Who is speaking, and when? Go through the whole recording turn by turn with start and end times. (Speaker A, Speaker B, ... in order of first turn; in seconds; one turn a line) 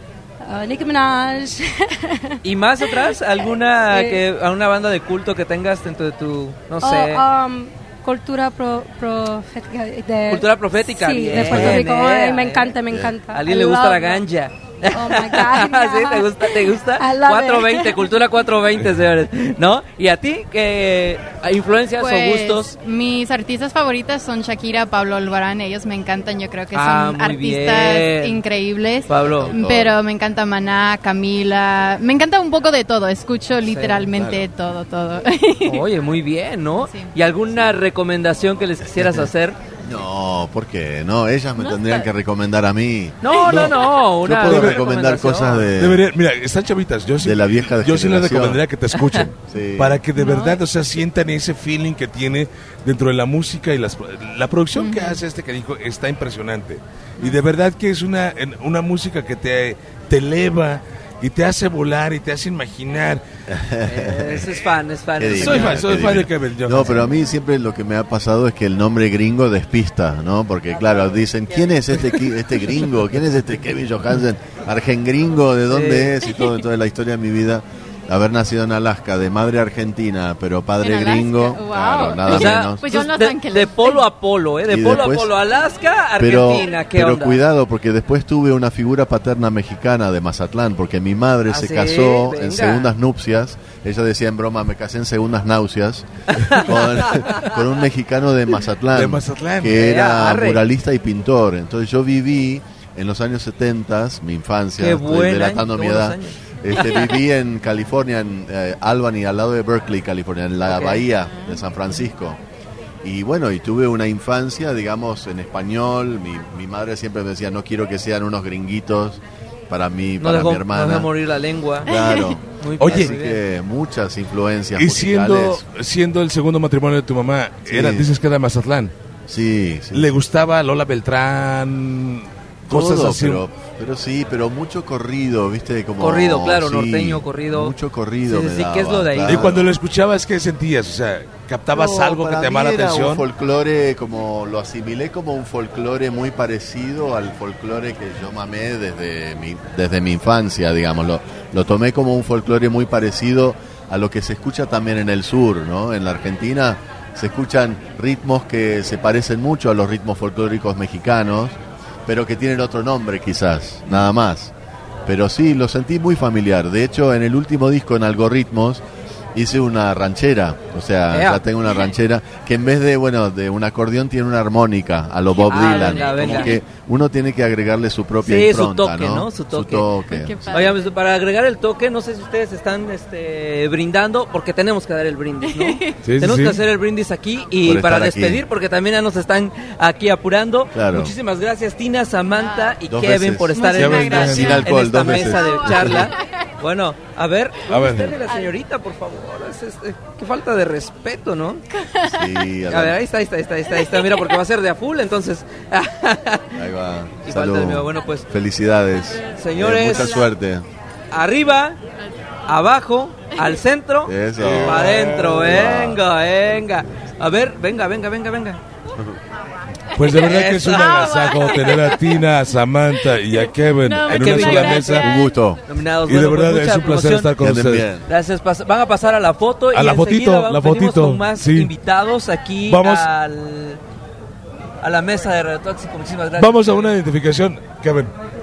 Speaker A: 0.4-3.3
Speaker B: 2.4-7.2
Speaker A: 3.9-4.2
Speaker A: 6.8-14.2
Speaker B: 10.3-22.7
Speaker C: 11.4-11.8
Speaker A: 14.9-18.2
Speaker D: 22.0-35.9
Speaker B: 26.7-28.4
Speaker B: 29.1-29.6
Speaker C: 29.3-30.0
Speaker B: 33.6-34.1
Speaker C: 34.1-34.5
Speaker B: 35.7-39.6
Speaker D: 36.8-37.1
Speaker C: 38.9-39.3
Speaker C: 39.8-43.3
Speaker B: 41.7-42.0
Speaker B: 43.2-45.7
Speaker E: 43.4-43.8
Speaker C: 44.2-46.0
Speaker E: 44.3-44.9
Speaker E: 45.8-63.2
Speaker C: 47.2-48.6
Speaker B: 48.9-49.3
Speaker C: 49.5-50.0
Speaker D: 50.2-50.6
Speaker D: 54.8-55.2
Speaker C: 63.5-64.5
Speaker B: 63.9-66.2
Speaker C: 65.2-82.9
Speaker E: 65.4-67.0
Speaker B: 75.7-76.3
Speaker D: 80.8-84.1
Speaker B: 82.2-87.5
Speaker C: 84.7-85.3
Speaker C: 86.2-112.4
Speaker B: 91.5-92.9
Speaker B: 96.5-97.4
Speaker E: 98.9-99.7
Speaker B: 99.8-100.6
Speaker B: 104.8-107.1
Speaker B: 110.7-111.0
Speaker C: 113.0-121.1
Speaker B: 120.2-121.9
Speaker C: 121.8-125.6
Speaker D: 121.9-122.4
Speaker B: 122.6-123.4
Speaker E: 122.8-123.2
Speaker E: 124.8-128.9
Speaker C: 127.7-128.1
Speaker C: 129.3-130.1
Speaker E: 129.9-133.4
Speaker C: 132.7-139.7
Speaker B: 136.0-137.8
Speaker B: 138.3-139.4
Speaker E: 139.3-143.2
Speaker C: 141.7-164.5
Speaker C: 165.1-168.8
Speaker C: 169.3-180.7
Speaker B: 171.1-171.9
Speaker D: 175.3-176.6
Speaker B: 175.4-176.6
Speaker B: 178.2-179.9
Speaker D: 180.1-181.0
Speaker B: 180.5-201.6
Speaker D: 185.4-186.0
Speaker E: 186.0-186.6
Speaker C: 187.6-188.4
Speaker C: 190.7-191.1
Speaker D: 192.3-192.8
Speaker C: 192.9-196.1
Speaker D: 193.5-194.7
Speaker E: 193.7-194.7
Speaker D: 195.4-196.3
Speaker E: 197.7-198.1
Speaker D: 201.8-202.3
Speaker C: 202.0-203.0
Speaker B: 202.7-206.6
Speaker D: 203.7-204.4
Speaker C: 206.6-210.7
Speaker B: 207.2-208.3
Speaker B: 209.3-210.3
Speaker B: 211.1-211.8
Speaker B: 212.5-218.6
Speaker C: 214.1-216.0
Speaker E: 214.4-215.5
Speaker E: 219.9-225.1
Speaker B: 220.2-221.9
Speaker D: 220.8-222.1
Speaker D: 223.3-225.4
Speaker B: 224.1-224.9
Speaker C: 224.9-225.6
Speaker B: 225.7-227.3
Speaker E: 226.0-227.9
Speaker C: 227.4-228.1
Speaker B: 228.1-233.8
Speaker E: 229.7-231.7
Speaker E: 232.7-233.1
Speaker B: 234.8-236.7
Speaker E: 236.4-238.1